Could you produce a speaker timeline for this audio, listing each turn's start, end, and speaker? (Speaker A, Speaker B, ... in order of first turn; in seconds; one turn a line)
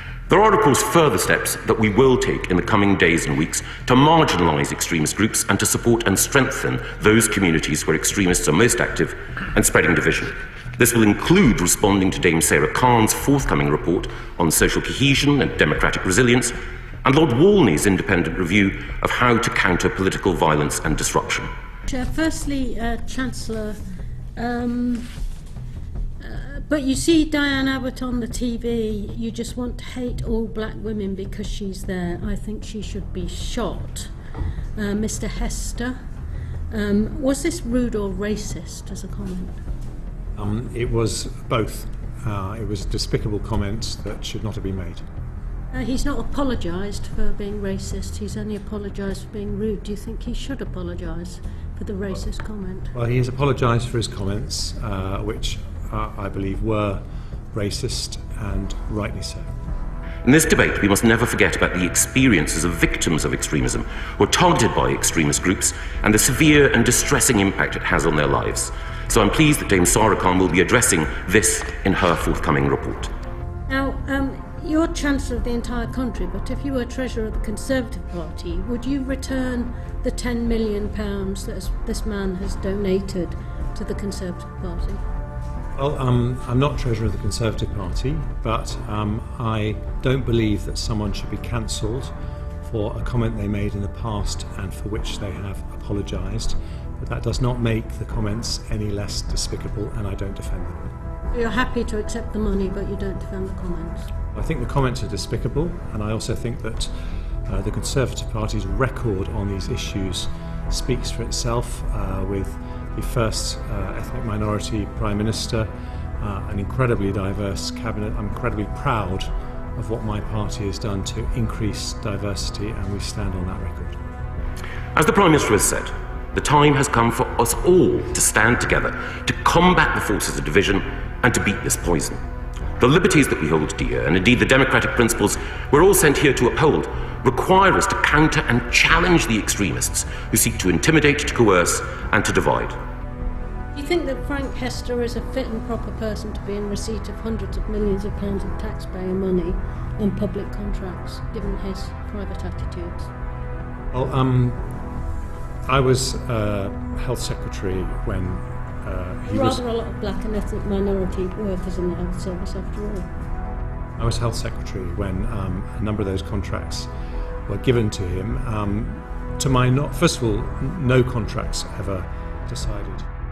Speaker A: 0.3-21.5
Speaker B: 21.9-23.8
Speaker B: 24.4-25.1
Speaker B: 26.2-34.1
Speaker B: 34.8-36.0
Speaker B: 36.7-39.6
Speaker C: 40.4-45.0
Speaker B: 45.7-52.9
Speaker C: 52.9-57.0
Speaker C: 57.5-59.5
Speaker A: 60.2-73.1
Speaker B: 73.7-85.0
Speaker C: 85.8-100.9
Speaker B: 101.3-104.1
Speaker C: 104.3-106.9
Speaker C: 107.5-115.7
Speaker C: 116.2-124.0
Speaker A: 124.9-132.2
Speaker A: 132.8-142.8
Speaker B: 143.7-153.1
Speaker C: 153.9-154.8
Speaker C: 155.7-159.6
Speaker B: 159.2-163.1
Speaker C: 164.0-166.9
Speaker C: 167.5-173.1